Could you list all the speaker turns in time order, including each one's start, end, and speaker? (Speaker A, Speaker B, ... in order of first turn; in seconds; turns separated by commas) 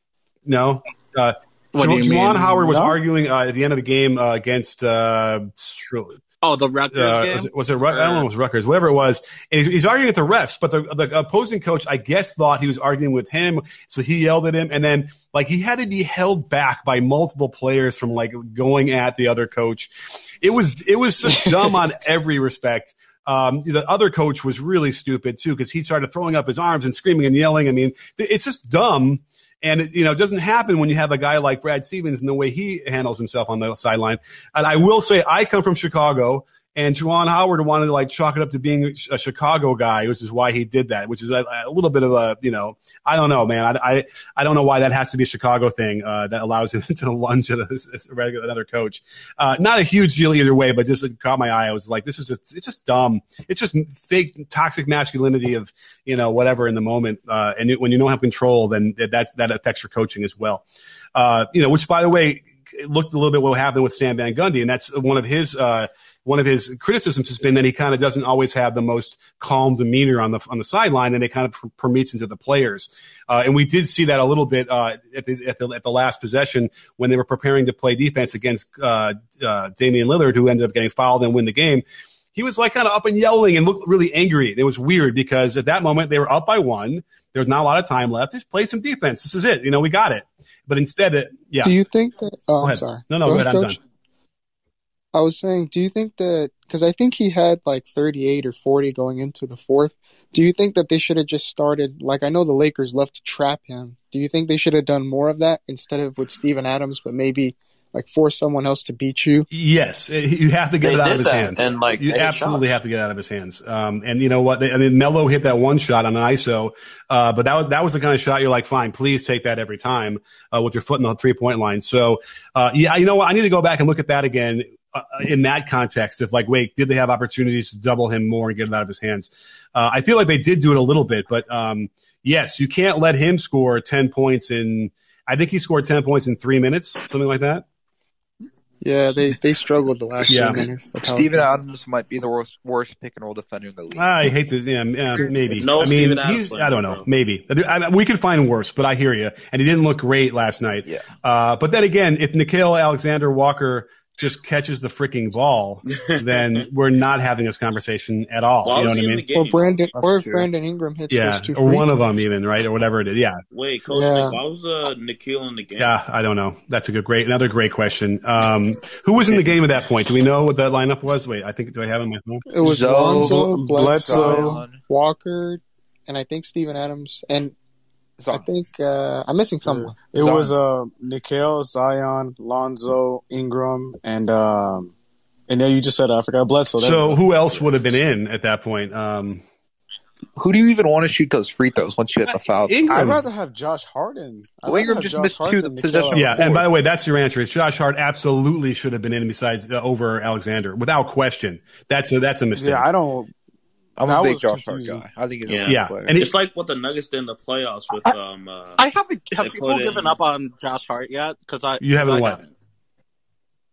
Speaker A: 0.5-6.2, Speaker B: 1.7-2.6, Speaker C: 2.6-3.0, Speaker B: 6.4-8.2, Speaker A: 6.9-91.7, Speaker D: 91.6-93.8, Speaker A: 92.6-93.8, Speaker D: 95.1-109.5, Speaker A: 109.5-137.6, Speaker E: 110.8-112.7, Speaker D: 138.8-141.5, Speaker A: 140.3-140.7, Speaker F: 140.3-144.3, Speaker A: 143.9-159.2, Speaker E: 145.5-147.1, Speaker F: 150.8-151.1, Speaker E: 155.9-156.2, Speaker E: 158.6-159.8, Speaker D: 159.3-161.9, Speaker F: 159.9-160.5, Speaker A: 161.1-163.4, Speaker E: 163.5-165.9, Speaker D: 163.9-164.4, Speaker A: 165.8-172.4, Speaker D: 172.5-177.5, Speaker F: 172.6-174.8, Speaker C: 172.8-174.6, Speaker F: 178.2-178.5, Speaker D: 178.3-180.0, Speaker F: 179.7-180.6, Speaker C: 179.9-184.9, Speaker C: 185.5-187.2, Speaker A: 186.8-189.4, Speaker F: 190.4-193.2, Speaker A: 192.3-193.2, Speaker C: 192.9-196.6, Speaker F: 194.6-196.7, Speaker A: 196.1-202.8, Speaker C: 202.5-203.3, Speaker F: 204.0-206.3, Speaker C: 204.0-205.0, Speaker E: 205.4-208.8, Speaker A: 205.7-206.3, Speaker B: 208.8-212.5, Speaker E: 209.3-210.2, Speaker A: 211.8-212.4